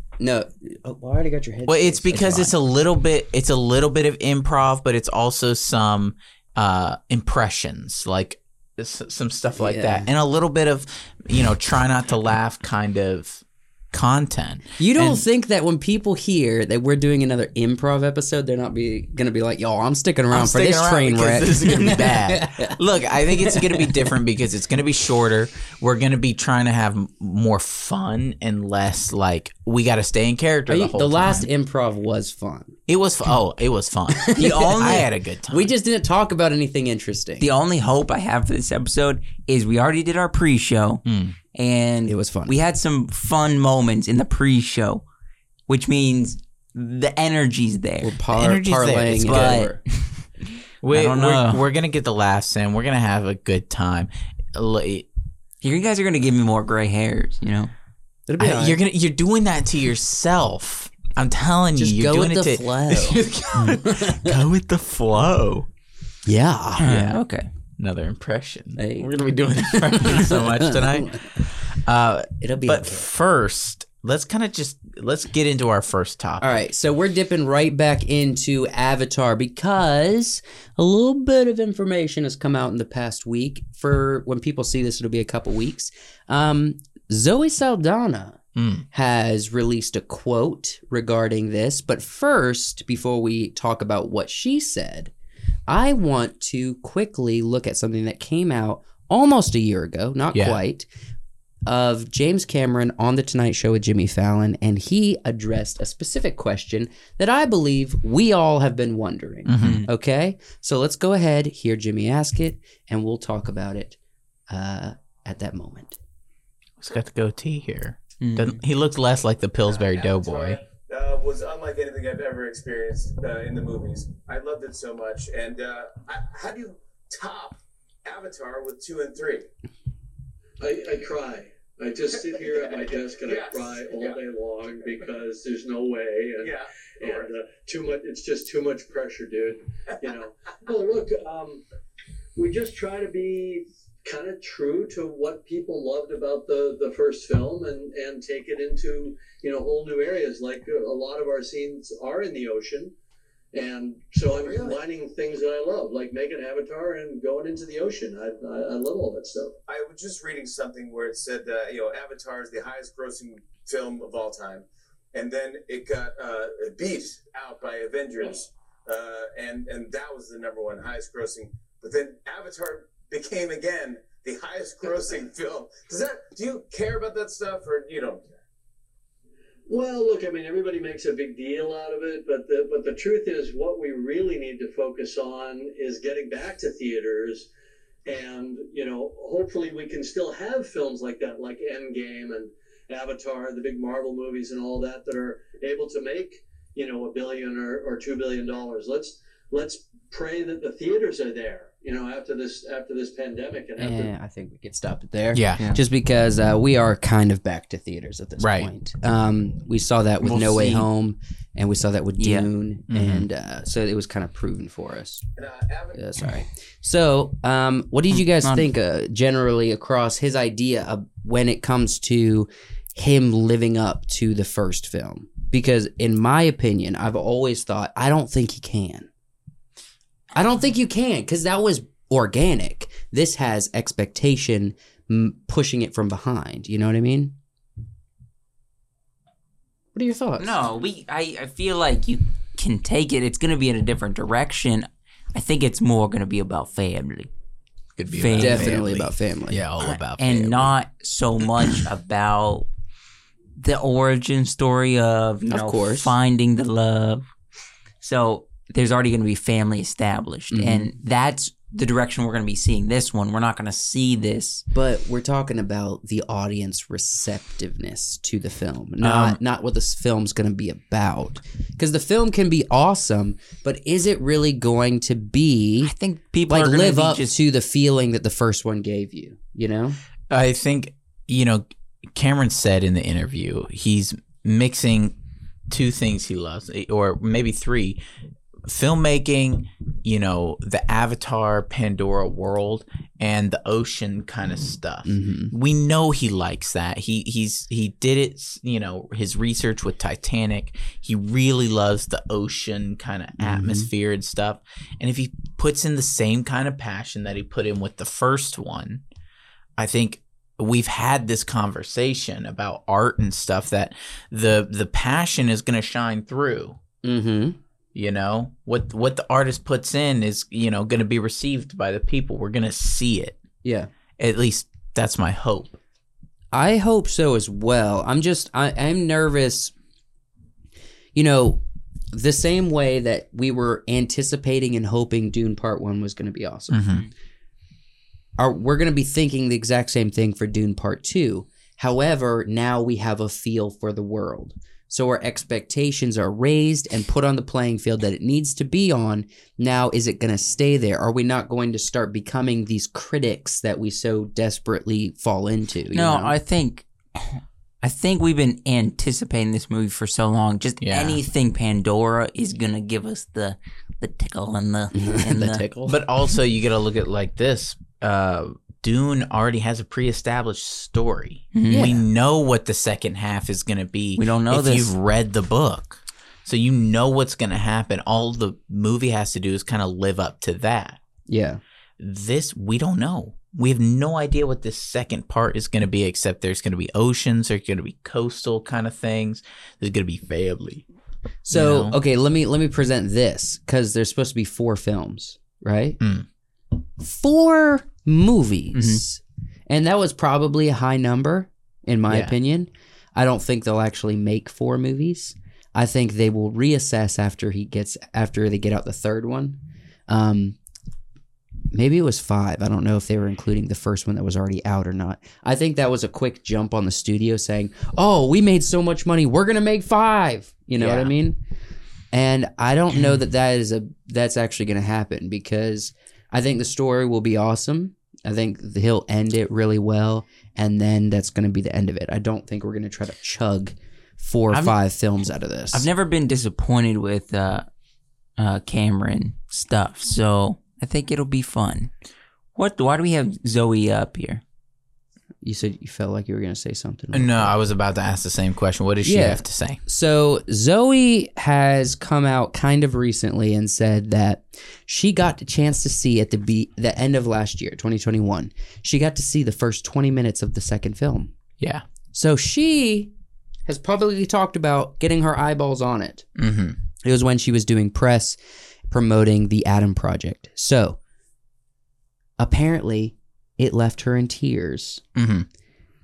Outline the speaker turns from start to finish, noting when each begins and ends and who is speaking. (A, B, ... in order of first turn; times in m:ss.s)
0:00.2-0:02.5 A
0:01.7-0:15.2 B
0:09.6-0:10.1 A
0:14.8-0:22.8 A
0:20.3-0:31.5 B
0:23.4-0:23.9 A
0:30.7-0:32.7 A
0:32.9-0:35.7 B
0:34.2-0:37.5 A
0:34.3-0:35.1 C
0:37.4-0:41.0 C
0:41.0-0:41.3 B
0:41.5-0:45.0 C
0:42.0-0:42.6 A
0:45.7-0:48.1 C
0:48.0-0:49.8 A
0:48.3-0:49.7 B
0:49.3-0:50.3 C
0:50.8-0:55.1 B
0:50.9-0:51.6 C
0:55.6-0:57.7 C
0:58.3-0:58.8 A
0:58.4-1:05.7 B
1:01.8-1:04.3 A
1:06.2-1:06.8 A
1:06.8-1:07.5 C
1:07.8-1:16.5 B
1:08.8-1:09.1 A
1:09.7-1:11.2 A
1:12.4-1:13.0 A
1:16.4-1:28.4 A
1:28.6-1:28.8 B
1:28.9-1:35.1 A
1:35.7-1:40.9 A
1:40.3-1:40.6 B
1:41.6-1:54.0 A
1:49.4-1:49.8 B
1:49.5-1:49.9 C
1:54.5-1:56.0 A
1:56.8-2:00.6 B
1:58.2-1:58.6 C
1:59.7-2:09.4 D
2:10.6-2:21.6 E
2:12.3-2:14.2 D
2:16.4-2:17.3 D
2:22.4-2:32.9 E
2:33.5-2:39.6 E
2:34.2-2:34.8 D
2:39.7-2:58.3 D
2:59.7-3:07.5 E
3:08.0-3:24.1 E
3:23.8-3:35.2 A
3:25.3-3:25.6 B
3:28.4-3:28.7 B
3:30.2-3:30.9 C
3:32.2-3:32.5 C
3:32.9-3:33.3 B
3:35.4-3:36.0 D
3:36.0-3:49.1 A
3:38.1-3:38.7 C
3:50.3-3:57.3 A
3:59.9-4:00.6 A
4:00.4-4:07.3 C
4:08.0-4:10.7 B
4:08.1-4:08.8 C
4:08.4-4:09.6 A
4:09.8-4:12.7 C
4:13.6-4:17.2 C
4:15.5-4:16.1 A
4:18.0-4:24.6 C
4:20.5-4:20.9 A
4:24.7-4:35.9 A
4:29.0-4:29.4 B
4:35.8-4:37.4 C
4:36.5-4:40.0 A
4:40.3-4:45.1 B
4:45.7-4:48.0 B
4:48.6-5:09.0 B
4:55.0-4:55.5 A
5:03.4-5:03.9 A
5:09.8-5:16.8 B
5:17.0-5:17.6 A
5:17.9-5:23.4 B
5:23.6-5:23.9 A
5:24.2-5:25.8 B
5:26.5-5:29.7 A
5:31.1-5:31.6 A
5:32.1-5:36.9 A
5:36.7-5:37.0 B
5:38.4-5:56.3 A
5:55.9-5:56.8 C
5:57.8-6:05.7 C
6:00.8-6:01.2 B
6:05.0-6:05.7 A
6:05.8-6:21.0 B
6:11.5-6:11.9 C
6:11.7-6:12.0 A
6:14.2-6:14.9 C
6:21.3-6:21.6 A
6:22.0-6:30.8 B
6:31.4-6:36.0 A
6:31.5-6:32.0 B
6:36.0-6:36.2 B
6:37.0-6:50.6 A
6:38.7-6:39.0 C
6:42.1-6:42.3 B
6:51.7-7:01.4 A
7:00.8-7:01.1 B
7:02.1-7:15.9 A
7:14.5-7:14.8 B
7:15.7-7:17.7 C
7:18.4-7:21.9 C
7:22.5-7:24.4 C
7:25.4-7:27.5 A
7:27.1-7:29.8 B
7:29.0-7:41.3 A
7:42.1-7:43.1 A
7:43.6-7:46.2 A
7:46.4-7:46.8 B
7:47.0-7:51.0 A
7:52.4-7:55.0 A
7:55.2-7:55.5 B